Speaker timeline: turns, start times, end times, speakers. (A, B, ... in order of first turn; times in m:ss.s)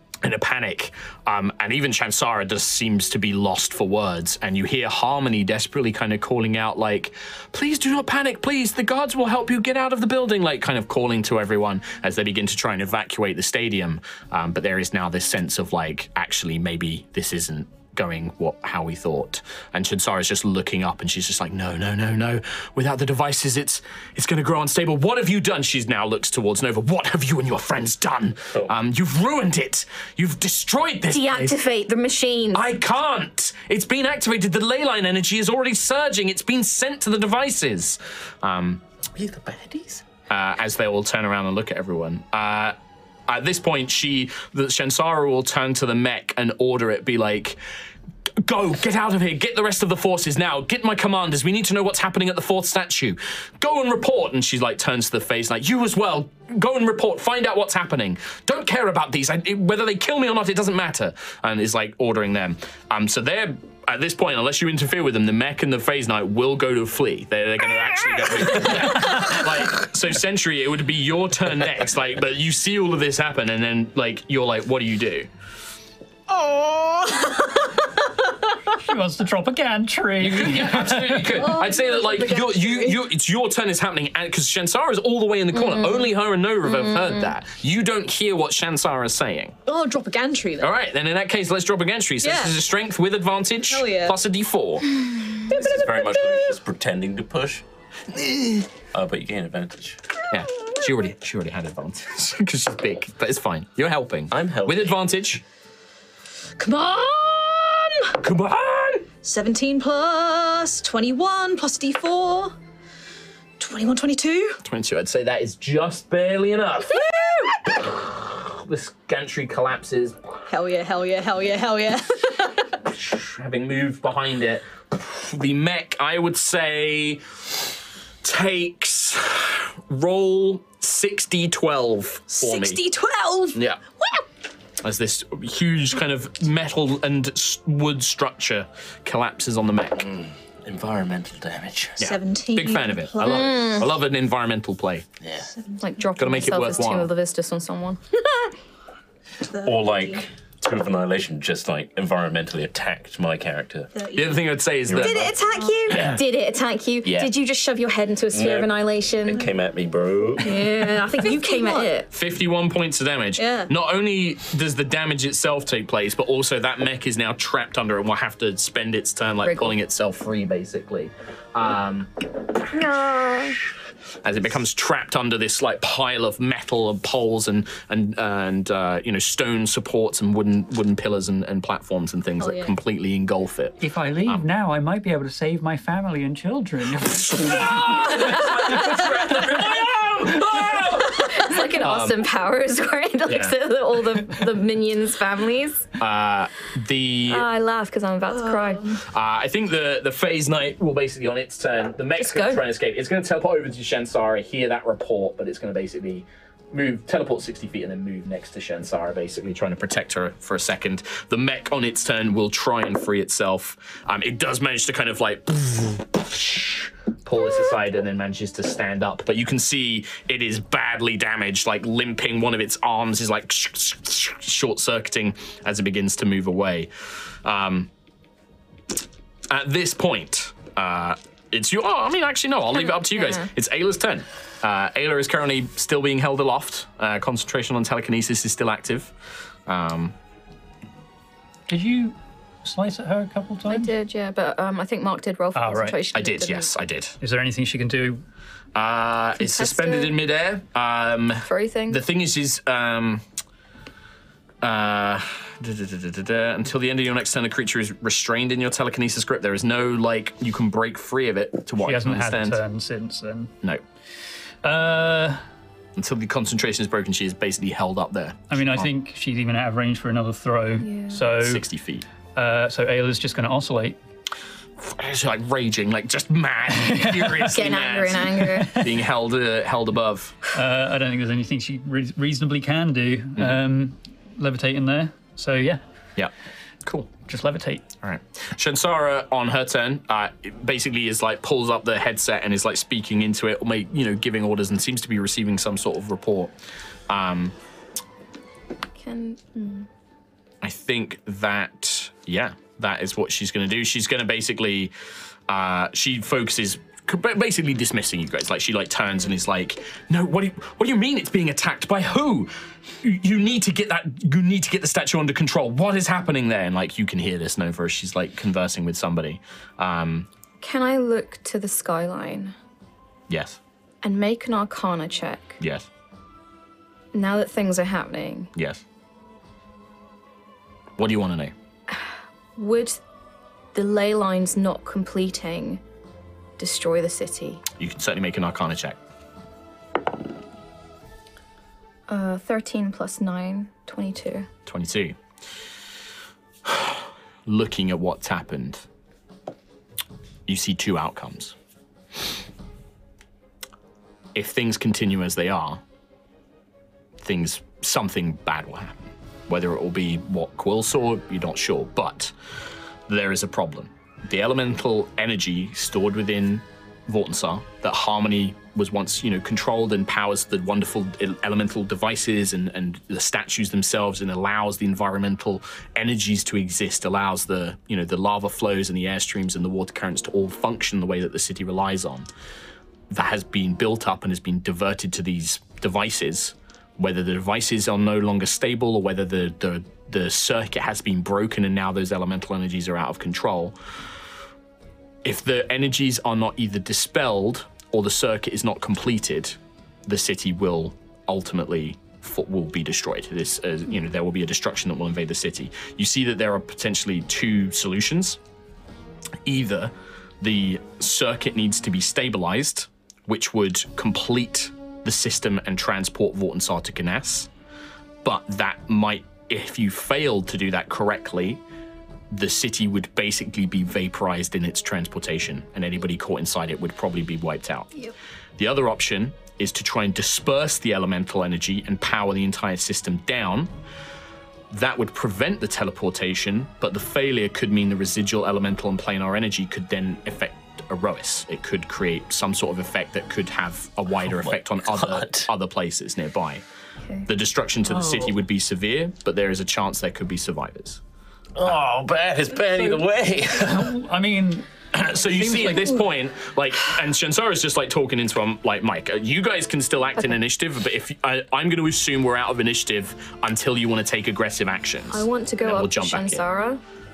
0:00.2-0:31.6 A
0:31.1-0:32.6 B
0:32.5-0:38.8 A
0:39.2-0:40.0 C
0:40.3-0:42.7 A
0:43.3-0:47.6 A
0:48.4-1:15.3 A
1:09.0-1:09.3 D
1:16.3-1:17.1 B
1:18.8-1:21.5 D
1:20.2-1:29.6 A
1:21.6-1:22.4 E
1:25.6-1:26.0 B
1:26.7-1:27.3 B
1:29.7-1:30.6 E
1:30.6-1:35.0 A
1:33.7-1:34.1 E
1:35.5-1:37.6 C
1:38.1-1:38.6 A
1:38.9-1:40.0 C
1:40.3-1:45.4 A
1:44.3-1:45.0 C
1:46.6-1:47.9 E
1:48.2-1:49.1 A
1:49.2-1:52.5 E
1:53.6-1:54.5 E
1:54.6-1:57.1 A
1:57.7-2:00.2 A
2:00.5-2:02.2 E
2:02.9-2:07.6 A
2:08.2-2:12.8 A
2:12.4-2:13.5 E
2:13.5-2:13.8 A
2:14.8-2:20.1 A
2:20.0-2:22.1 C
2:22.0-2:25.0 A
2:22.0-2:23.8 E
2:23.2-2:23.9 B
2:25.2-2:25.5 C
2:25.8-2:28.0 B
2:26.2-2:27.1 A
2:29.6-2:30.2 E
2:29.6-2:33.9 C
2:34.0-2:34.4 E
2:34.1-2:35.3 A
2:34.8-2:35.3 C
2:35.0-2:39.4 B
2:35.9-2:36.2 C
2:37.0-2:37.3 C
2:38.3-2:40.6 C
2:40.4-2:42.1 B
2:41.2-2:41.8 E
2:42.1-2:52.1 A
2:49.4-2:49.7 B
2:52.7-2:53.6 B
2:54.2-3:04.4 A
3:03.8-3:09.4 D
3:07.1-3:12.2 A
3:11.1-3:15.9 B
3:13.3-3:13.5 A
3:16.0-3:17.5 A
3:17.3-3:19.0 B
3:19.0-3:47.9 A
3:22.2-3:22.6 B
3:49.5-3:59.1 A
3:53.1-3:53.5 B
3:59.7-4:00.1 A
4:01.7-4:03.9 D
4:03.7-4:06.7 B
4:05.5-4:06.0 D
4:06.1-4:07.2 A
4:07.2-4:08.2 D
4:08.7-4:13.2 A
4:09.4-4:10.1 B
4:11.4-4:12.0 B
4:14.6-4:22.6 A
4:21.8-4:23.5 D
4:24.6-4:25.4 D
4:26.0-4:28.9 A
4:28.5-4:31.6 D
4:30.8-4:31.2 B
4:31.3-4:32.0 A
4:32.3-4:34.0 D
4:34.8-4:40.4 A
4:36.8-4:37.6 D
4:37.5-4:38.8 B
4:38.4-4:38.9 D
4:40.5-4:45.8 D
4:46.8-4:47.1 A
4:47.2-4:47.8 D
4:48.0-4:56.5 A
4:57.1-4:57.5 A
4:59.0-4:59.9 B
5:00.6-5:04.9 A
5:05.5-5:12.5 A
5:13.0-5:20.3 A
5:20.6-5:22.5 B
5:23.3-5:23.6 A
5:24.0-5:25.6 B
5:25.6-5:25.9 A
5:27.1-5:28.5 B
5:28.6-5:28.8 A
5:31.0-5:31.5 A
5:31.9-5:33.0 B
5:33.7-5:35.8 B
5:36.6-5:37.6 B
5:37.8-5:39.0 A
5:42.1-5:44.5 B
5:44.6-5:45.2 A
5:46.6-5:48.8 A
5:50.5-5:51.5 A
5:54.3-5:55.8 A
5:57.2-6:02.3 A
6:03.1-6:22.3 A
6:23.1-6:33.7 A
6:35.2-6:48.4 A
6:49.4-6:57.5 A
6:58.2-7:01.6 A
7:02.3-7:07.9 A
7:08.6-7:13.7 A
7:14.7-7:26.6 A
7:24.2-7:25.5 C
7:27.3-7:31.0 A
7:27.9-7:28.4 C
7:31.6-7:33.9 C
7:32.7-7:33.0 D
7:33.6-7:36.0 D
7:34.9-7:46.4 A
7:45.1-7:46.8 B